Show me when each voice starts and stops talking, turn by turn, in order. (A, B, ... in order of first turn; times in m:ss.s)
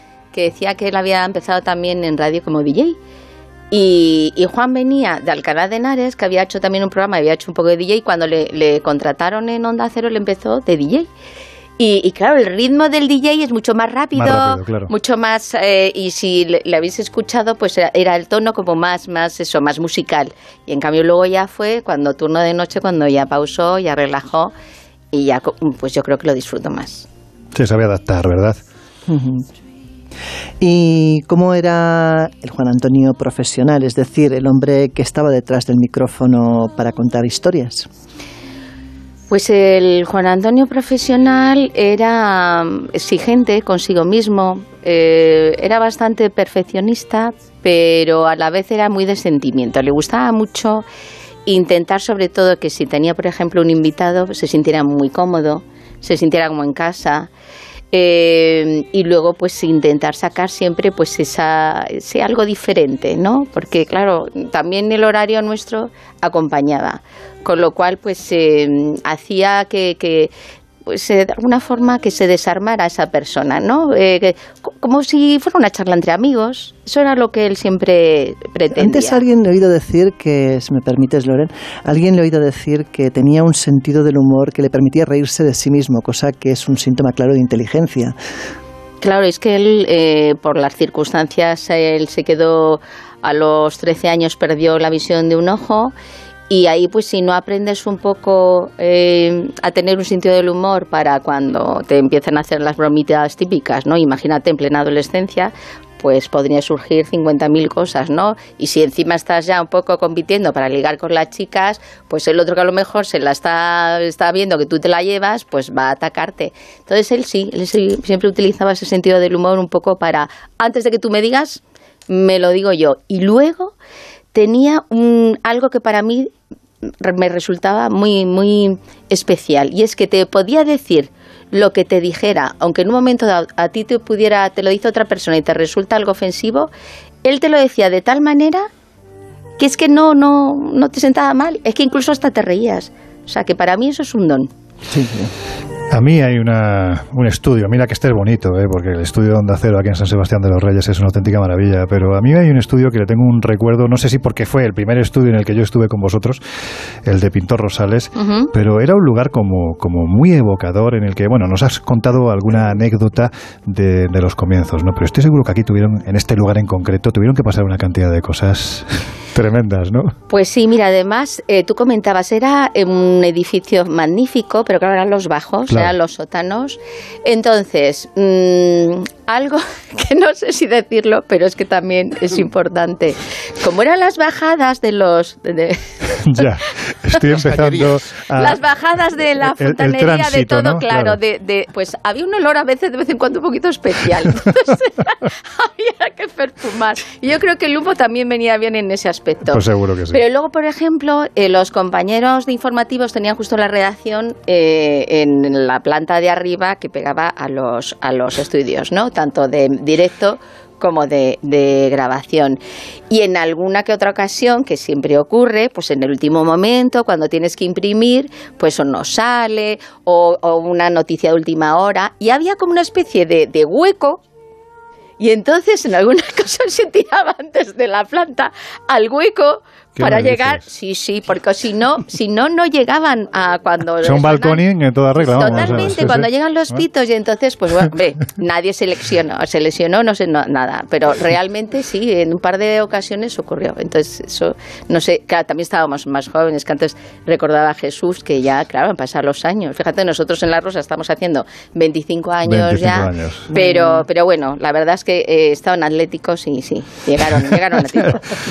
0:00.3-0:03.0 A
0:03.7-0:11.1 A
0:11.8-0:24.5 A
0:14.2-0:14.9 B
0:25.1-0:27.1 A
0:27.5-0:28.6 B
0:29.1-0:29.4 C
0:30.6-0:37.9 C
0:39.3-0:50.9 A
0:51.5-0:57.3 A
0:57.9-1:10.3 A
1:10.9-1:19.2 A
1:18.7-1:28.2 C
1:29.0-1:36.0 A
1:36.5-2:03.7 A
2:04.3-2:06.3 A
2:07.0-2:16.7 A
2:17.2-2:18.7 A
2:19.6-2:24.5 A
2:24.9-2:25.3 C
2:25.9-2:36.4 B
2:37.0-2:50.1 B
2:38.2-2:38.5 A
2:50.3-3:05.8 A
2:55.7-2:55.9 B
3:06.2-3:08.6 B
3:08.4-3:44.2 A
3:09.4-3:11.2 B
3:19.5-3:20.2 B
3:45.2-3:54.6 A
3:50.0-3:50.6 B
3:54.0-3:56.8 B
3:55.2-4:18.2 A
4:12.4-4:13.5 B
4:13.5-4:14.0 C